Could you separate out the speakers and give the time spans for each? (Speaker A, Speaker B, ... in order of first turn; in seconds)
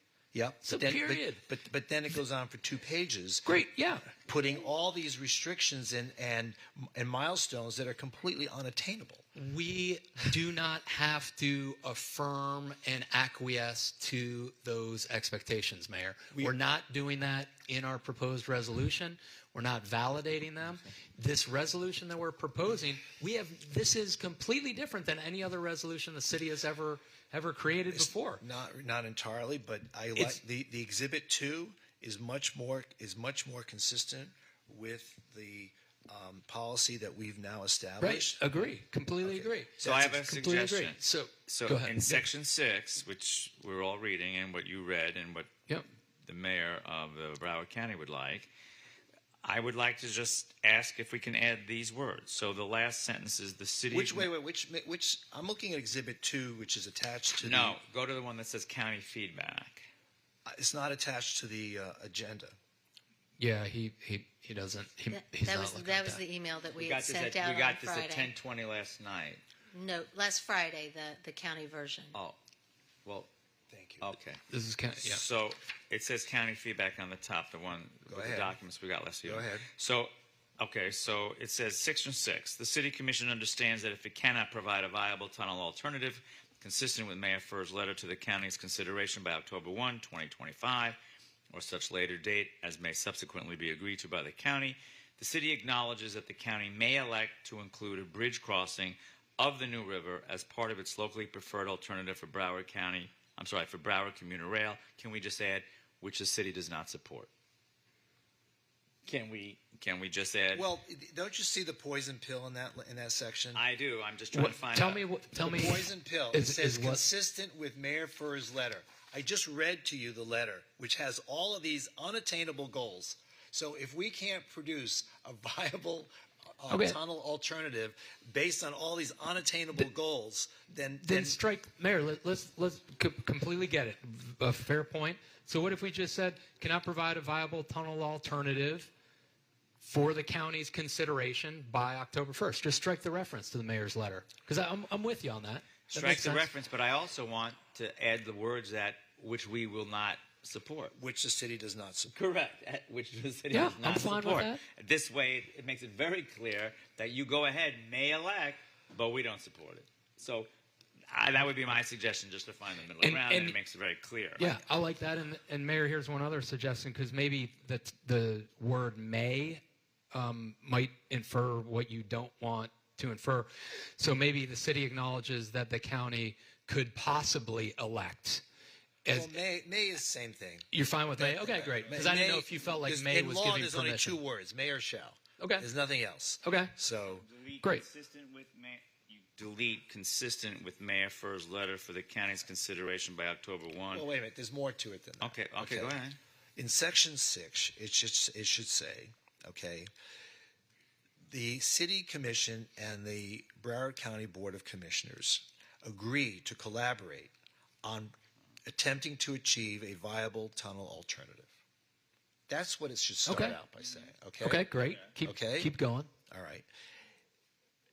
Speaker A: 0.3-3.5, 4.1-9.2, 27.9-38.7, 39.2-40.2, 53.9-57.8, 60.5-62.5, 73.7-74.1, 78.1-78.5, 79.2-79.7, 110.5-113.6, 115.4-131.4, 150.9-152.1, 179.1-187.2, 193.9-196.0, 196.6-199.9, 201.3-207.3, 207.8-208.1, 208.6-211.5, 212.5-214.7, 215.2-215.7, 216.3-216.7
Speaker B: 0.6-1.4, 3.5-4.1, 9.3-28.4, 38.0-42.2, 63.4-66.2, 74.5-75.2, 114.3-117.0, 126.7-127.0, 131.0-138.9, 139.8-146.5, 153.5-154.6, 163.0-163.6, 164.4-178.4, 179.0-179.4, 180.7-184.2, 185.4-185.7, 186.4-186.7, 213.2-213.6, 214.4-216.1
Speaker C: 39.8-45.5, 46.2-48.5, 49.4-54.3, 57.4-59.9, 66.7-69.4, 73.0-73.3, 74.0-74.4, 75.0-91.0, 91.5-107.3, 109.0-110.7, 113.5-115.0, 145.9-150.9, 152.1-160.5, 161.1-164.5, 187.1-194.1, 195.2-196.2
Speaker D: 65.1-68.3, 69.7-72.2